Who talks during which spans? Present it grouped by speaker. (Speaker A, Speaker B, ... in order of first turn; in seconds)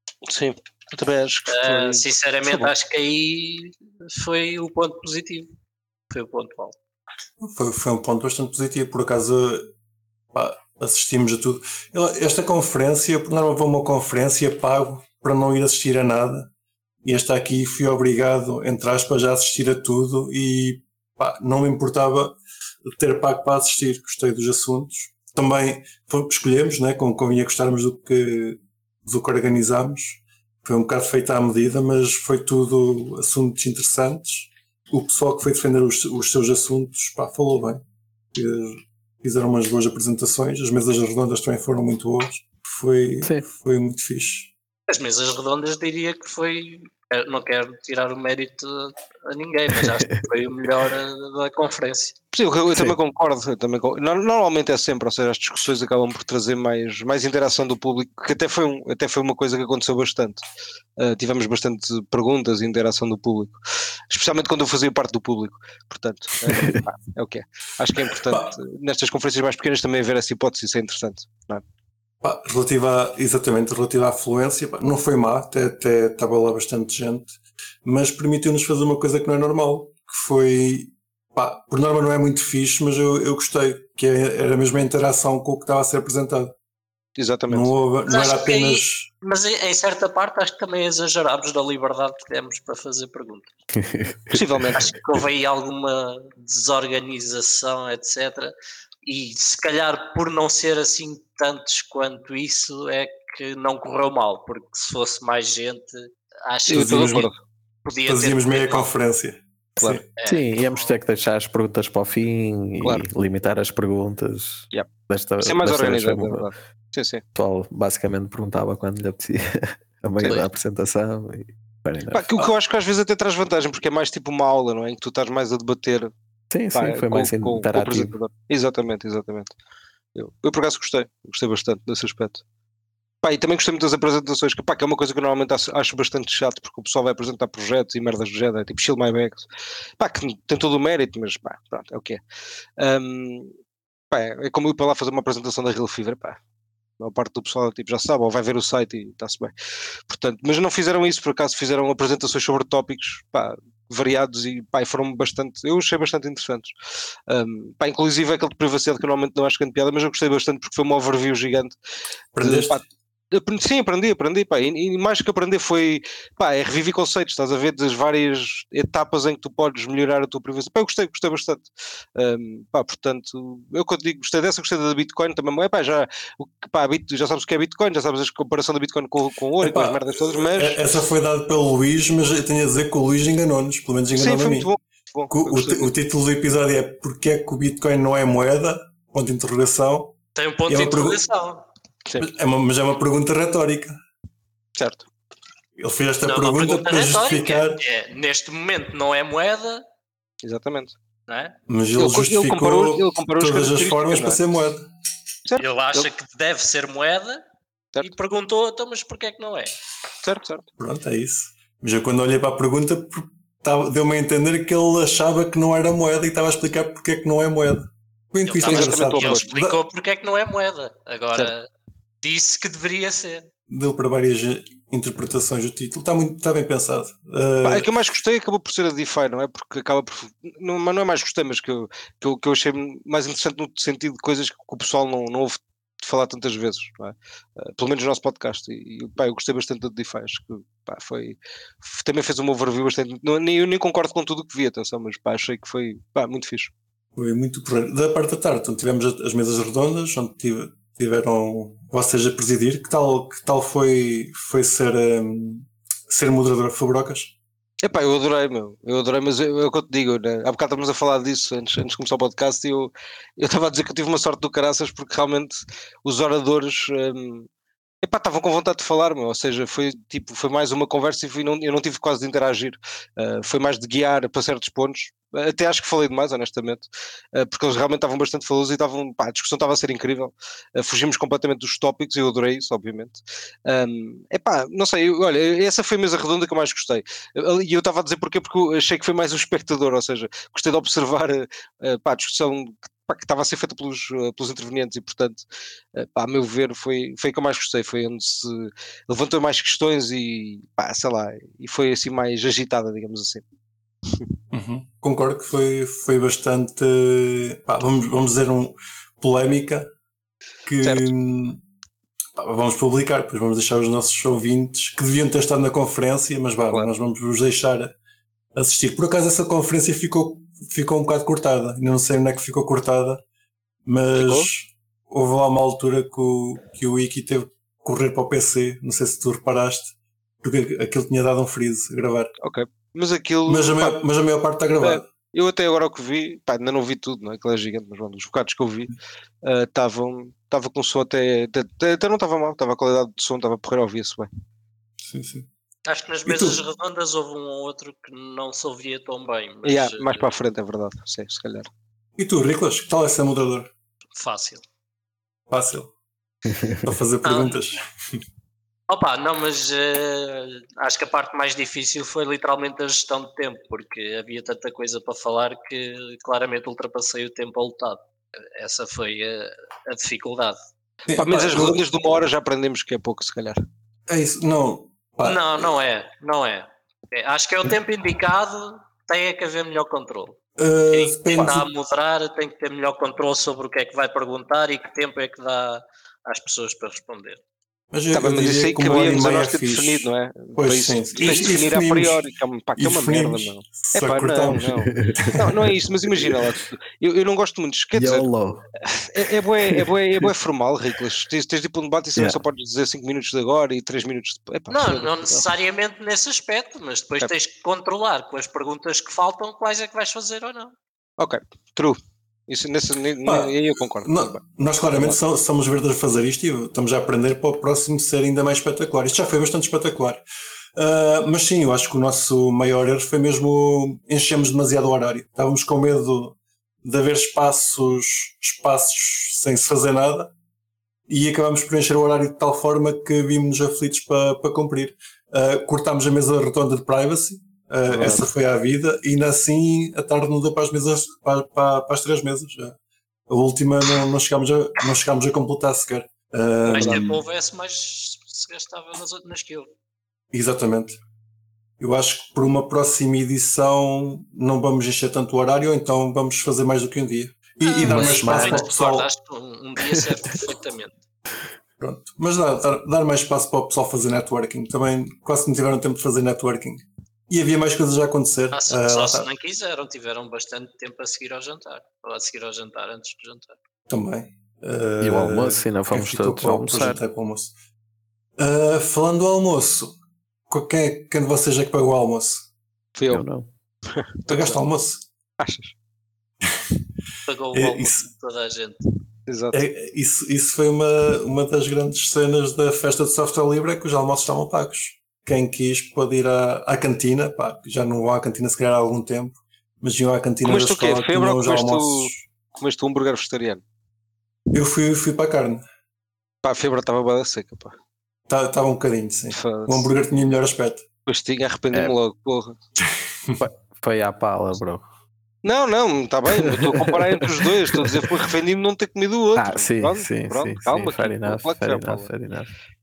Speaker A: 0.2-2.7, 52.3-60.4, 61.0-71.6, 87.2-87.7, 94.3-95.0, 106.7-107.4, 112.8-113.1, 115.4-117.2, 122.1-126.1, 126.7-129.5, 130.1-132.4, 133.2-139.4, 140.0-142.2, 142.8-143.5, 144.1-146.4, 147.0-149.5, 150.1-156.7, 157.3-161.8, 162.4-181.0, 184.1-185.9, 194.8-195.1, 200.4-200.9, 202.0-204.4, 205.4-206.1, 210.2-210.7, 218.6-219.4, 227.6-246.7, 257.8-267.5, 268.0-303.4, 310.8-311.1, 324.1-324.5, 332.4-334.0, 334.8-344.3, 349.6-351.7, 371.1-373.6, 388.1-398.3, 398.9-405.5, 411.2-415.2, 437.9-438.2, 446.7-447.1, 482.9-483.2, 483.9-484.6, 485.4-485.7, 489.3-489.6, 500.4-503.6, 506.4-507.8, 509.3-509.9, 511.1-512.6, 515.4-522.1
Speaker B: 1.5-5.5, 6.1-6.7, 44.9-52.1, 88.1-93.5, 94.7-107.3, 107.8-108.9, 110.2-110.5, 190.3-191.7, 196.2-199.8, 201.3-201.5, 205.6-207.4, 208.0-209.8, 218.4-221.7, 222.2-223.4, 345.9-350.3, 354.1-354.6, 357.2-357.6, 358.9-368.0, 368.5-370.6, 375.2-380.4, 380.9-387.4, 391.1-391.5, 404.7-410.8, 446.7-449.7, 457.6-461.0, 468.5-473.5, 487.2-488.8
Speaker C: 7.4-9.7, 10.3-16.5, 17.0-22.4, 22.9-37.8, 38.3-44.5, 68.2-68.5, 72.2-86.5, 87.5-89.1, 106.7-107.3, 108.1-110.0, 162.3-162.8, 179.6-184.7, 185.3-190.1, 190.7-191.2, 192.2-193.9, 195.8-197.8, 201.7-204.8, 210.8-219.8, 223.7-227.9, 247.2-257.3, 304.5-309.9, 310.6-311.6, 312.4-317.9, 318.6-323.2, 323.9-332.3, 333.5-335.0, 345.1-345.5, 346.2-346.6, 352.2-353.7, 355.5-355.9, 356.8-357.8, 371.1-371.8, 374.1-375.7, 380.6-381.6, 387.9-392.2, 392.8-394.7, 413.2-420.2, 420.8-430.3, 431.1-442.7, 443.3-447.2, 450.3-451.0, 451.8-459.1, 461.8-469.3, 473.9-477.5, 478.4-479.9, 480.5-482.4, 484.3-485.0, 487.5-488.0, 489.5-502.2, 504.5-505.6, 508.3-510.8
Speaker D: 49.8-50.2, 66.5-66.8, 93.7-94.3, 110.2-116.5, 117.3-122.2, 126.5-128.1, 356.4-356.8, 394.9-395.4, 397.9-398.6, 457.8-458.7, 459.9-460.4, 475.0-477.0, 483.1-483.5, 513.4-514.9, 517.7-518.1, 519.4-522.5